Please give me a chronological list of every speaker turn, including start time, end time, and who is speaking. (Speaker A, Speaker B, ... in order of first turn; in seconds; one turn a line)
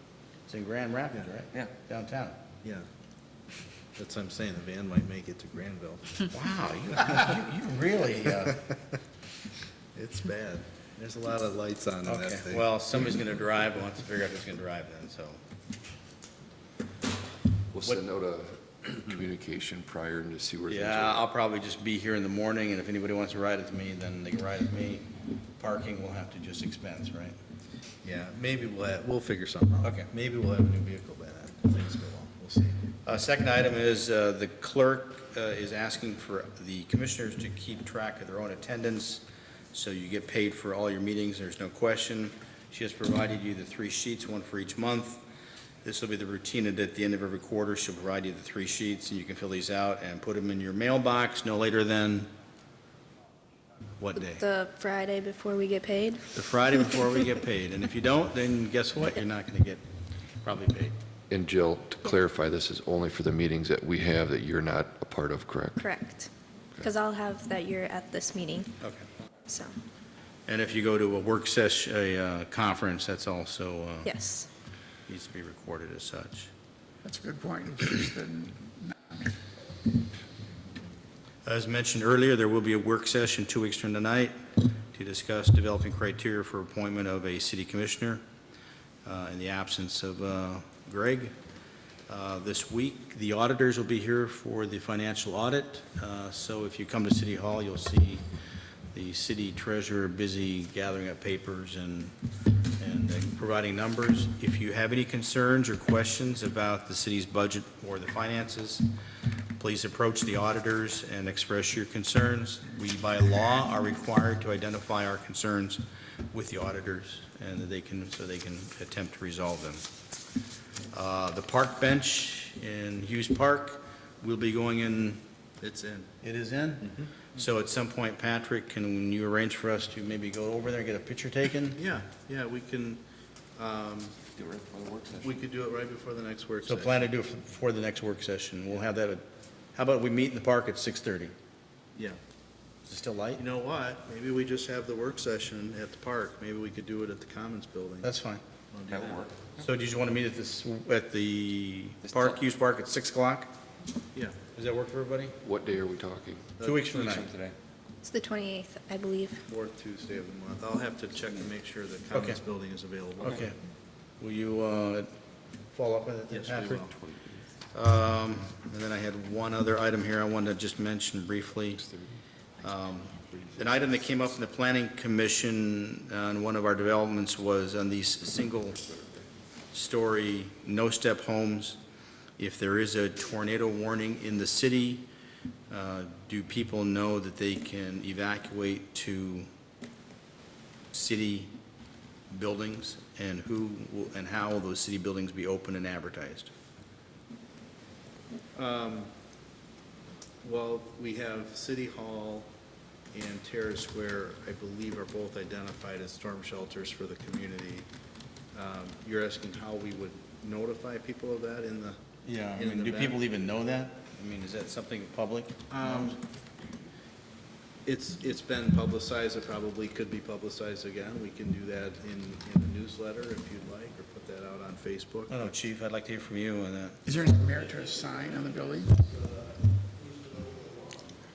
Speaker A: 0.5-2.4
Speaker B: 4.0-6.2
Speaker A: 6.3-8.7
Speaker B: 9.9-13.0
Speaker A: 12.1-15.4
Speaker C: 17.7-21.2
Speaker A: 20.7-25.1
Speaker A: 25.6-27.4
Speaker B: 28.0-32.8
Speaker A: 29.8-30.1
Speaker A: 33.0-45.2
Speaker A: 45.8-52.3
Speaker A: 54.0-54.4
Speaker D: 54.1-56.2
Speaker A: 56.3-59.8
Speaker A: 60.4-61.0
Speaker C: 61.3-65.9
Speaker D: 65.8-68.7
Speaker A: 68.8-69.1
Speaker D: 69.5-69.7
Speaker A: 70.5-74.1
Speaker D: 74.0-74.5
Speaker A: 75.1-76.5
Speaker E: 77.0-79.3
Speaker A: 81.5-84.4
Speaker A: 84.9-88.2
Speaker A: 89.0-91.3
Speaker A: 92.1-98.2
Speaker A: 98.9-102.1
Speaker A: 102.8-108.9
Speaker A: 109.6-115.8
Speaker A: 116.3-119.8
Speaker A: 120.9-125.2
Speaker B: 125.6-126.1
Speaker A: 126.2-131.8
Speaker B: 126.8-127.1
Speaker B: 131.8-133.0
Speaker B: 133.6-134.2
Speaker F: 134.3-135.4
Speaker B: 135.2-137.1
Speaker A: 136.7-139.2
Speaker A: 139.8-141.3
Speaker A: 142.9-143.4
Speaker B: 143.4-148.1
Speaker A: 148.0-148.4
Speaker B: 148.7-149.3
Speaker F: 148.9-149.6
Speaker A: 149.6-153.5
Speaker F: 152.0-152.4
Speaker A: 154.5-155.4
Speaker C: 155.4-156.5
Speaker B: 156.6-156.9
Speaker A: 156.6-157.3
Speaker F: 156.9-157.6
Speaker D: 158.0-159.4
Speaker B: 159.5-163.5
Speaker A: 162.1-162.4
Speaker A: 163.2-163.6
Speaker A: 164.2-165.1
Speaker A: 165.7-166.9
Speaker B: 166.3-166.9
Speaker A: 167.7-171.8
Speaker A: 172.6-178.8
Speaker A: 179.7-181.8
Speaker A: 182.4-185.1
Speaker A: 185.7-189.5
Speaker A: 190.9-191.5
Speaker A: 192.3-196.5
Speaker B: 198.6-199.1
Speaker B: 200.4-202.5
Speaker B: 203.1-207.9
Speaker B: 208.5-212.0
Speaker A: 212.2-216.2
Speaker B: 212.5-213.2
Speaker B: 215.7-216.2
Speaker B: 217.9-225.5
Speaker A: 225.3-227.0
Speaker E: 227.1-229.0
Speaker B: 228.1-228.7
Speaker B: 230.0-230.8